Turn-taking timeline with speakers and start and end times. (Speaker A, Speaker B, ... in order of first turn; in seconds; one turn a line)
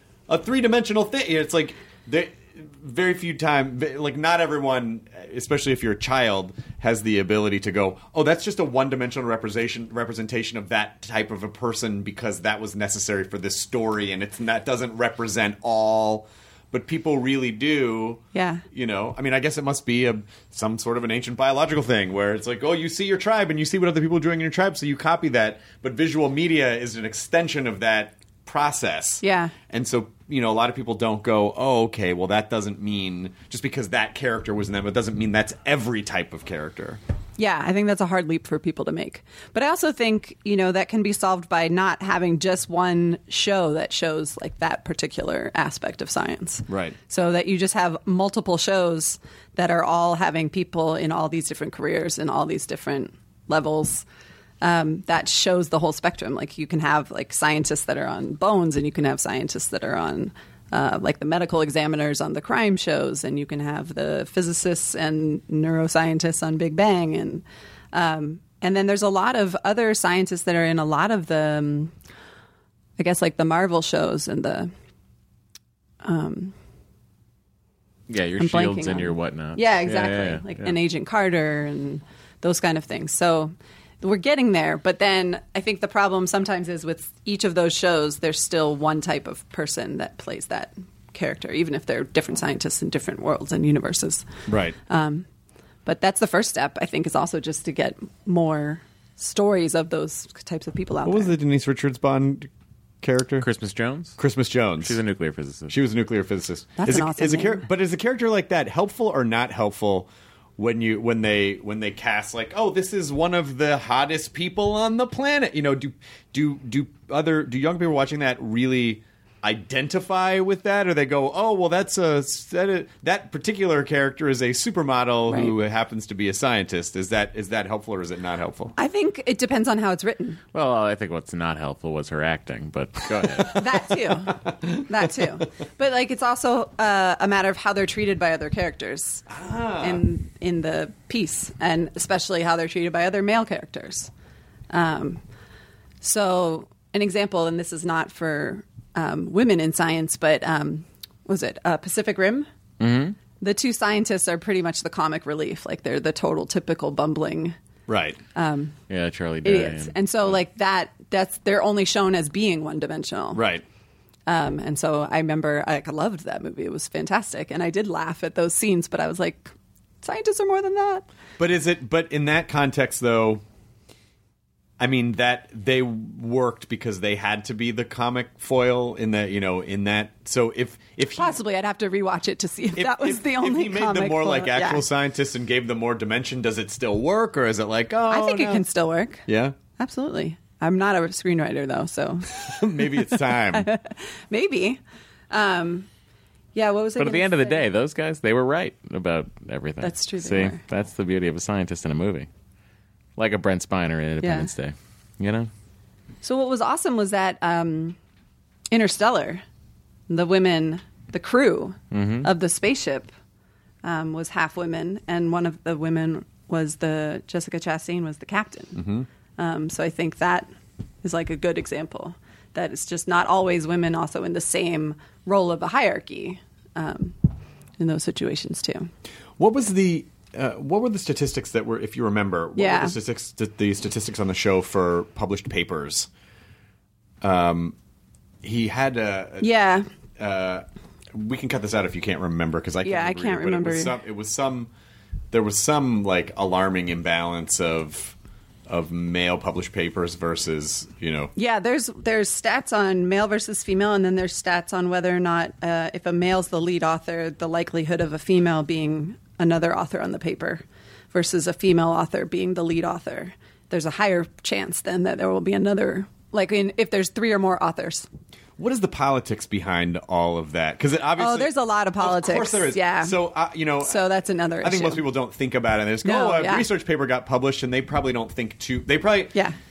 Speaker A: 0.3-37.0
Speaker B: 18.3-18.6
Speaker B: 29.2-29.5
Speaker B: 37.4-54.0
Speaker A: 46.7-47.0
Speaker B: 54.6-71.9
Speaker B: 73.0-74.7
Speaker B: 76.0-76.5
Speaker C: 78.1-80.8
Speaker B: 78.4-94.3
Speaker A: 94.5-94.8
Speaker B: 94.9-95.2
Speaker B: 95.8-101.3
Speaker A: 101.0-102.5
Speaker A: 103.0-103.5
Speaker C: 103.4-104.2
Speaker A: 104.2-105.0
Speaker C: 104.8-105.7
Speaker A: 105.7-128.8
Speaker B: 106.8-107.7
Speaker B: 128.8-130.4
Speaker C: 130.5-133.6
Speaker B: 133.5-139.2
Speaker A: 134.5-135.1
Speaker A: 139.3-140.0
Speaker B: 139.8-144.1
Speaker B: 144.7-145.2
Speaker B: 146.0-152.5
Speaker C: 152.8-153.2
Speaker B: 153.4-157.6
Speaker A: 157.9-158.2
Speaker B: 158.3-158.8
Speaker C: 158.9-160.3
Speaker B: 159.4-163.4
Speaker A: 163.3-163.6
Speaker B: 164.3-171.1
Speaker A: 171.4-173.4
Speaker A: 174.8-181.4
Speaker B: 181.2-184.8
Speaker A: 182.8-188.6
Speaker B: 188.1-189.2
Speaker A: 189.3-189.6
Speaker B: 189.8-194.8
Speaker A: 192.3-193.7
Speaker B: 195.3-195.9
Speaker B: 196.6-197.7
Speaker C: 197.0-202.3
Speaker B: 199.8-200.6
Speaker C: 203.2-205.5
Speaker B: 204.2-204.5
Speaker B: 206.2-208.0
Speaker B: 208.7-209.4
Speaker B: 210.1-213.1
Speaker C: 211.9-212.3
Speaker B: 213.8-218.8
Speaker A: 218.8-219.1
Speaker B: 219.4-220.5
Speaker B: 221.0-227.2
Speaker B: 227.8-228.9
Speaker A: 229.4-236.1
Speaker B: 232.6-232.9
Speaker A: 237.2-237.8
Speaker A: 238.4-239.5
Speaker B: 239.4-239.9
Speaker A: 240.2-244.7
Speaker B: 242.8-243.9
Speaker A: 245.3-248.2
Speaker A: 248.7-251.3
Speaker B: 251.4-268.1
Speaker A: 268.6-274.0
Speaker B: 271.2-273.2
Speaker B: 273.8-275.0
Speaker A: 274.6-279.4
Speaker B: 276.0-276.7